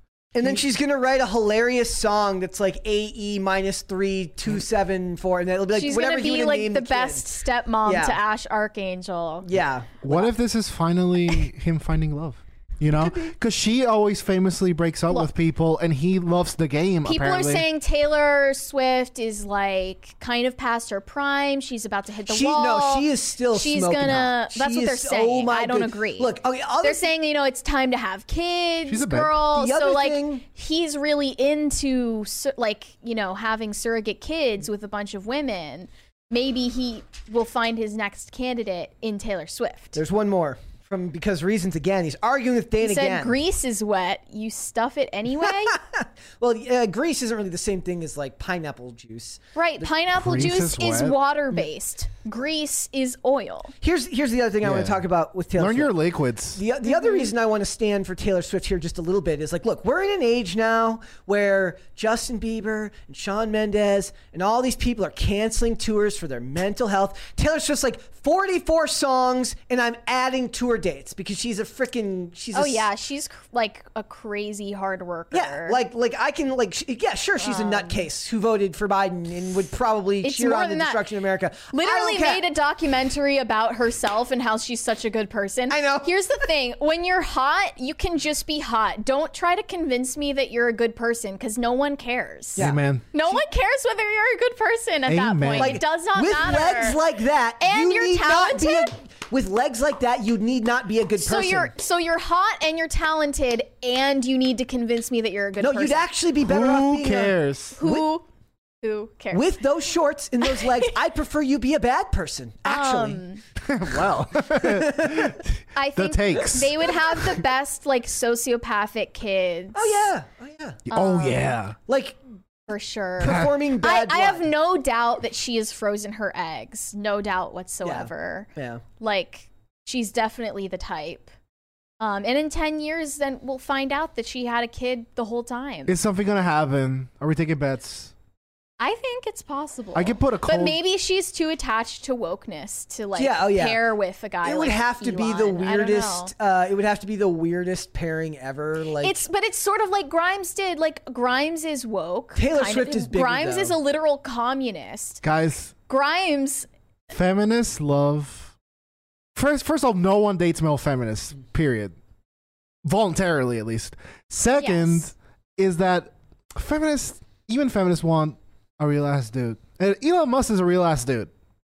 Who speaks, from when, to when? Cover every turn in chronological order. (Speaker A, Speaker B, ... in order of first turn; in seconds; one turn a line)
Speaker A: 0.3-7.3
Speaker B: 5.7-9.5
Speaker A: 7.8-8.2
Speaker A: 9.4-10.3
Speaker C: 10.0-17.7
Speaker A: 13.0-13.3
Speaker B: 17.1-40.0
Speaker A: 22.3-27.1
Speaker C: 28.9-29.4
Speaker A: 29.4-30.4
Speaker A: 40.0-43.4
Speaker B: 42.8-45.8
Speaker A: 45.4-49.9
Speaker B: 49.5-53.7
Speaker C: 50.1-51.2
Speaker A: 53.8-56.0
Speaker C: 54.6-55.0
Speaker C: 55.5-56.6
Speaker A: 56.5-72.9
Speaker B: 56.8-57.3
Speaker B: 72.5-75.8
Speaker A: 75.3-82.5
Speaker B: 77.4-78.0
Speaker B: 80.2-81.0
Speaker B: 81.7-97.0
Speaker A: 85.7-86.1
Speaker A: 92.6-93.4
Speaker C: 92.6-93.0
Speaker C: 95.1-95.8
Speaker A: 95.6-101.7
Speaker B: 97.6-98.9
Speaker B: 101.2-106.0
Speaker A: 105.6-108.1
Speaker C: 106.4-107.8
Speaker B: 107.8-108.3
Speaker B: 108.8-109.5
Speaker A: 109.3-113.2
Speaker B: 110.4-110.9
Speaker B: 112.7-113.4
Speaker C: 113.6-117.3
Speaker A: 114.5-115.4
Speaker B: 115.8-120.1
Speaker A: 119.7-120.8
Speaker C: 120.9-121.8
Speaker B: 120.9-121.6
Speaker A: 121.9-122.2
Speaker B: 122.7-131.3
Speaker A: 123.2-124.5
Speaker C: 123.2-123.5
Speaker A: 127.8-128.8
Speaker B: 132.0-135.9
Speaker C: 135.9-138.1
Speaker B: 138.8-146.3
Speaker C: 139.9-140.8
Speaker A: 143.2-143.9
Speaker A: 144.4-149.2
Speaker B: 149.0-155.2
Speaker A: 152.3-153.8
Speaker C: 155.2-155.7
Speaker B: 155.9-156.7
Speaker C: 157.1-158.5
Speaker C: 159.3-162.0
Speaker C: 162.8-171.3
Speaker B: 164.6-165.1